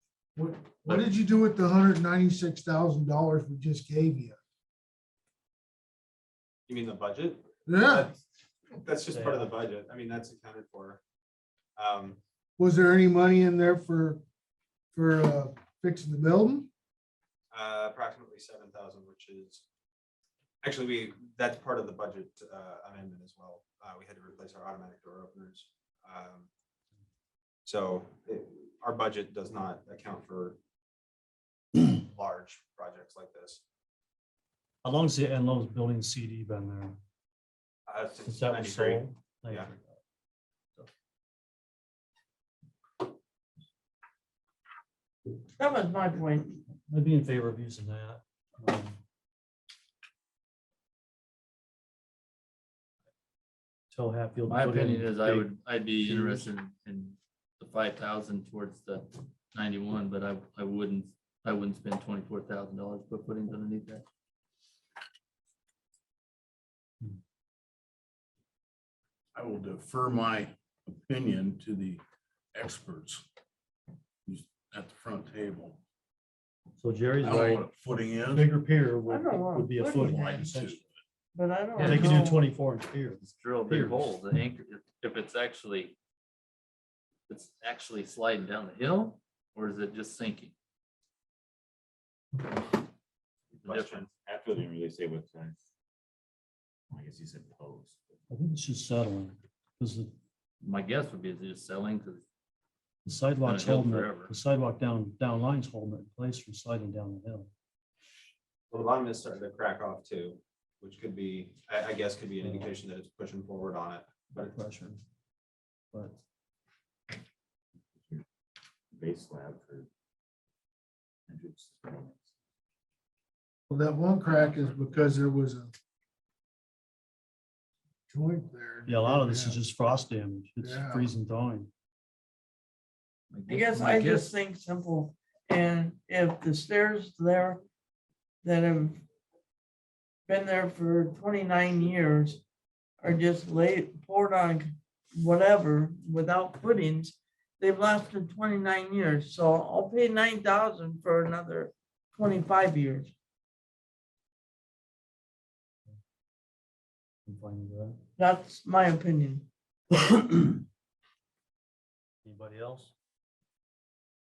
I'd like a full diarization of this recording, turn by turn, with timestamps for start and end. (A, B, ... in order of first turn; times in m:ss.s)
0:00.4-0:04.4 A
0:00.8-0:01.1 B
0:06.7-0:08.2 C
0:07.7-0:08.0 A
0:08.7-0:11.0 C
0:09.0-0:09.6 D
0:11.8-0:12.2 C
0:12.6-0:14.2 A
0:14.9-0:16.7 A
0:17.5-0:19.6 C
0:20.6-0:26.5 C
0:27.6-0:30.6 C
0:31.8-0:33.6 C
0:34.8-0:37.0 D
0:37.9-0:39.7 C
0:38.2-0:39.9 D
0:45.6-0:46.6 E
0:46.8-0:49.0 D
0:53.9-0:56.4 D
0:54.5-1:04.0 B
1:09.3-1:12.0 F
1:12.5-1:13.2 F
1:14.2-1:15.8 F
1:16.8-1:17.6 D
1:17.2-1:18.6 F
1:18.2-1:20.8 D
1:19.0-1:20.5 E
1:19.9-1:20.9 F
1:21.3-1:22.4 E
1:21.8-1:24.2 D
1:23.2-1:26.0 B
1:27.3-1:30.5 B
1:33.6-1:34.1 C
1:33.6-1:34.0 B
1:34.0-1:35.6 G
1:36.9-1:38.1 G
1:38.3-1:40.1 D
1:40.6-1:42.2 B
1:43.0-1:47.5 D
1:43.4-1:44.3 B
1:48.7-1:54.5 C
1:52.4-1:52.7 D
1:54.3-1:55.0 D
1:55.9-1:56.2 D
1:58.9-1:59.9 G
2:01.3-2:02.3 G
2:03.7-2:05.7 A
2:04.4-2:05.0 G
2:08.1-2:09.6 A
2:08.9-2:11.7 D
2:10.6-2:11.1 A
2:13.3-2:14.3 B
2:13.5-2:17.6 E
2:18.4-2:19.0 E
2:20.3-2:22.4 E
2:23.0-2:33.1 E
2:37.2-2:38.0 D
2:38.2-2:39.5 E
2:42.2-2:42.9 D